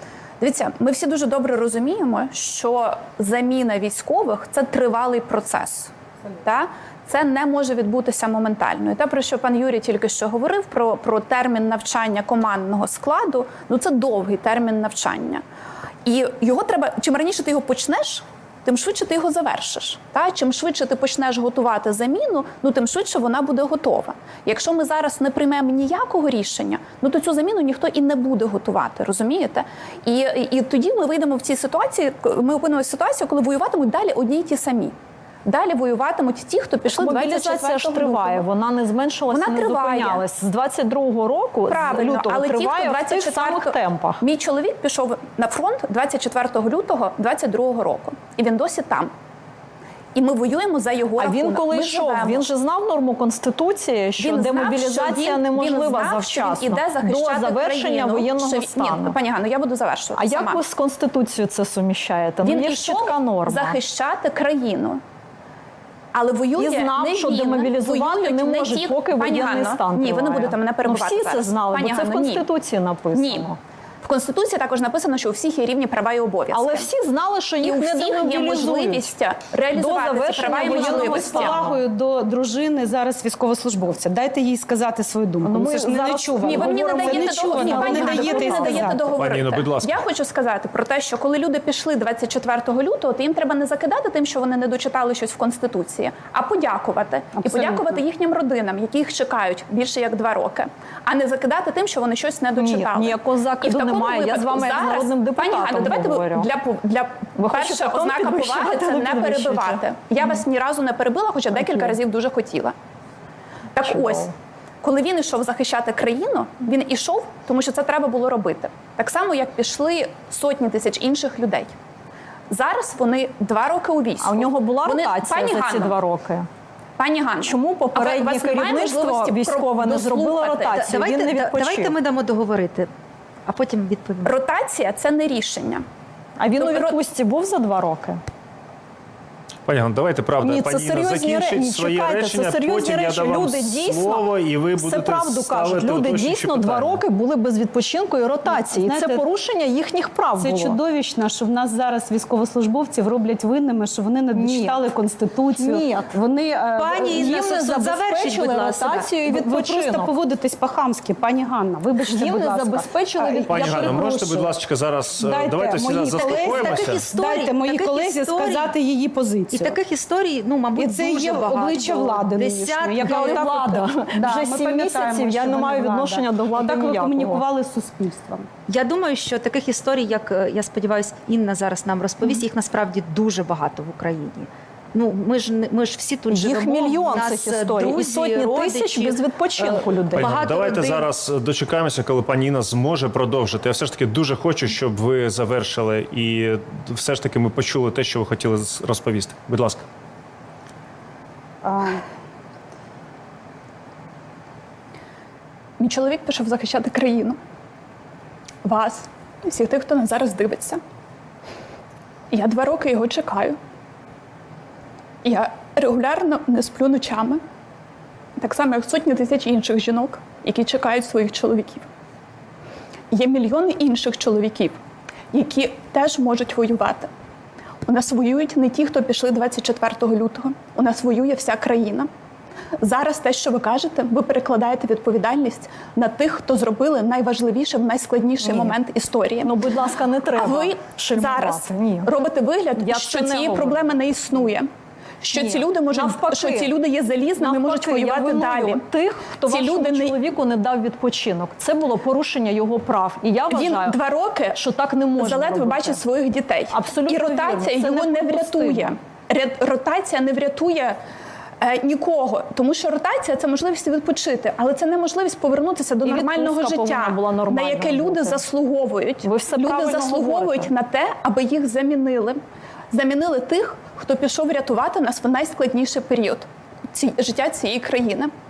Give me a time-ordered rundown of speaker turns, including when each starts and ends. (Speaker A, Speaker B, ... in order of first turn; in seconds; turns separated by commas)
Speaker A: 0.4-15.4, Speaker A: 16.1-34.9, Speaker A: 35.5-38.5, Speaker B: 36.9-44.2, Speaker A: 39.3-40.2, Speaker A: 41.7-49.1, Speaker A: 50.1-52.5, Speaker B: 51.2-59.2, Speaker A: 54.2-60.6, Speaker B: 60.2-63.8, Speaker A: 62.4-65.0, Speaker A: 66.1-72.5, Speaker B: 66.6-73.6, Speaker A: 73.1-73.5, Speaker A: 74.0-76.9, Speaker B: 76.5-79.1, Speaker A: 77.6-81.6, Speaker B: 79.7-81.8, Speaker C: 80.6-89.2, Speaker B: 85.4-89.0, Speaker A: 86.4-112.7, Speaker D: 89.2-90.0, Speaker C: 97.3-98.0, Speaker B: 102.6-106.5, Speaker B: 107.4-109.8, Speaker B: 111.6-111.9, Speaker A: 113.8-121.7, Speaker B: 113.8-114.3, Speaker A: 122.5-126.0, Speaker B: 124.2-126.5, Speaker A: 127.0-130.6, Speaker B: 127.4-131.9, Speaker E: 130.1-132.9, Speaker E: 133.5-134.3, Speaker A: 134.2-135.8, Speaker B: 136.4-138.2, Speaker A: 136.6-137.0, Speaker D: 139.7-147.0, Speaker B: 140.4-150.8, Speaker C: 148.4-149.3, Speaker C: 150.4-158.6, Speaker B: 154.3-154.8, Speaker B: 155.6-156.1, Speaker E: 156.8-159.1, Speaker B: 157.2-160.1, Speaker C: 159.2-164.3, Speaker B: 162.0-164.5, Speaker D: 163.5-167.1, Speaker C: 165.2-169.8, Speaker E: 166.2-168.7, Speaker E: 169.5-173.5, Speaker C: 170.8-178.5, Speaker B: 173.0-177.4, Speaker E: 178.7-191.1, Speaker B: 186.3-190.3, Speaker D: 190.2-199.8, Speaker C: 201.6-202.0, Speaker A: 205.8-207.4, Speaker A: 208.6-210.8, Speaker A: 212.3-213.6, Speaker A: 215.2-217.4, Speaker A: 218.4-221.9, Speaker A: 223.1-224.8, Speaker A: 225.3-227.1, Speaker A: 227.9-232.1, Speaker A: 232.8-239.5, Speaker B: 238.4-238.8, Speaker B: 239.4-242.1, Speaker A: 240.3-244.7, Speaker B: 242.8-244.0, Speaker A: 245.2-248.8, Speaker B: 245.3-246.7, Speaker B: 247.4-254.0, Speaker A: 249.4-250.2, Speaker A: 253.5-254.6, Speaker B: 254.5-256.0, Speaker A: 255.2-261.0, Speaker B: 256.7-258.9, Speaker A: 261.6-272.4, Speaker B: 266.0-268.4, Speaker B: 269.2-270.7, Speaker A: 272.9-278.3